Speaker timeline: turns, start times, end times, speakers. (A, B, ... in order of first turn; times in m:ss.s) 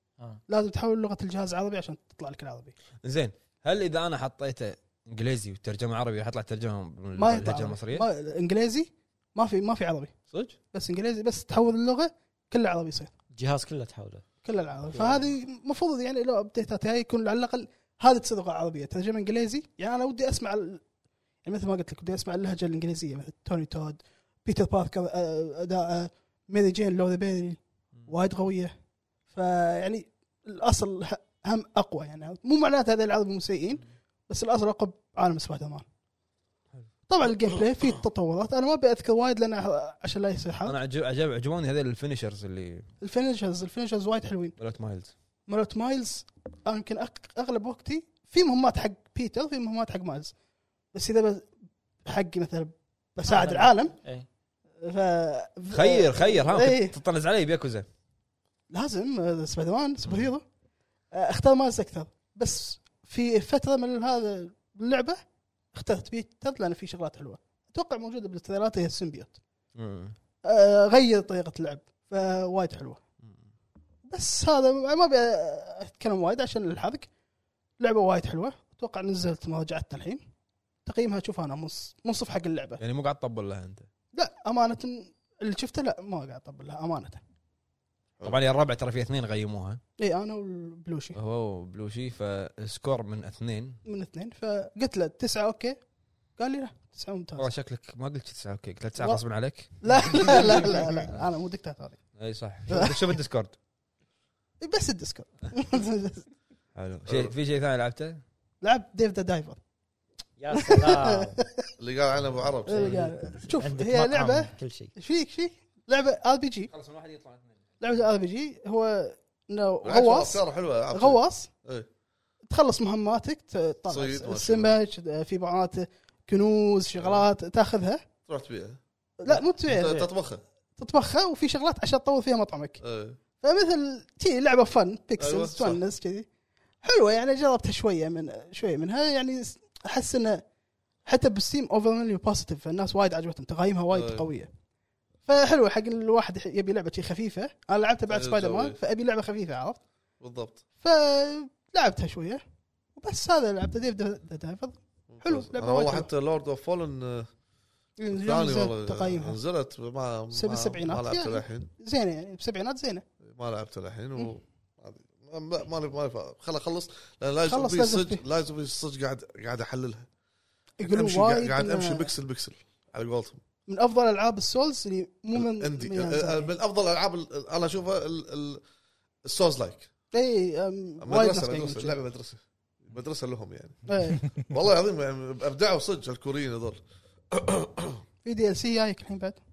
0:00.5-0:02.7 A
0:03.0-0:08.0 B
0:07.2-0:10.1 A
0:10.3-0:10.6 B
0:10.7-0:13.1 A
0:13.3-0:14.2 C
0:14.4-0:20.8 A
0:21.4-0:28.7 A
0:29.3-0:35.8 A
0:37.1-0:40.8 A
0:40.6-0:42.8 B
0:43.0-0:44.5 A
0:44.6-0:45.1 B
0:45.5-0:50.3 A
0:50.9-0:51.5 A
0:52.0-0:53.9 A
0:53.2-0:54.3 C
0:54.8-0:56.9 A
0:55.7-0:57.8 B
0:58.7-1:00.4 A
1:01.1-1:05.2 A
1:05.7-1:09.4 A
1:09.8-1:10.2 B
1:10.4-1:13.0 A
1:14.1-1:17.1 A
1:17.8-1:20.2 A
1:20.8-1:22.8 A
1:22.8-1:23.9 B
1:24.1-1:27.2 A
1:28.2-1:29.8 B
1:30.0-1:31.2 A
1:31.1-1:33.8 B
1:33.8-1:35.8 A
1:36.4-1:37.5 A
1:37.4-1:40.7 B
1:39.8-1:42.0 A
1:42.2-1:43.5 B
1:42.7-1:43.0 A
1:44.6-1:46.2 A
1:46.8-1:48.2 B
1:48.6-1:49.6 A
1:50.4-1:51.4 C
1:50.5-1:51.7 A
1:51.8-1:53.0 D
1:52.6-1:56.7 A
1:52.8-1:54.9 C
1:56.7-1:57.5 B
1:57.8-2:01.5 A
1:59.8-2:01.9 D
2:02.5-2:08.0 A
2:03.9-2:04.8 D
2:07.0-2:07.2 D
2:08.3-2:08.8 D
2:09.2-2:10.0 A
2:09.6-2:10.4 D
2:10.8-2:12.8 A
2:12.8-2:13.2 D
2:13.3-2:16.2 A
2:15.2-2:15.8 D
2:16.8-2:20.4 A
2:21.0-2:24.5 A
2:23.9-2:24.3 D
2:25.2-2:29.8 A
2:28.1-2:28.7 D
2:30.2-2:30.6 D
2:30.8-2:32.4 A
2:32.9-2:36.1 A
2:35.1-2:37.3 D
2:38.0-2:39.4 A
2:38.1-2:41.7 D
2:40.3-2:43.0 A
2:43.2-2:50.1 D
2:47.4-2:48.2 A
2:50.8-2:52.1 A
2:50.8-2:53.4 D
2:53.7-2:56.5 A
2:55.3-2:58.6 D
2:59.2-2:59.9 D
3:00.1-3:01.9 A
3:01.0-3:06.8 D
3:03.8-3:04.3 A
3:07.3-3:08.0 D
3:08.2-3:09.4 A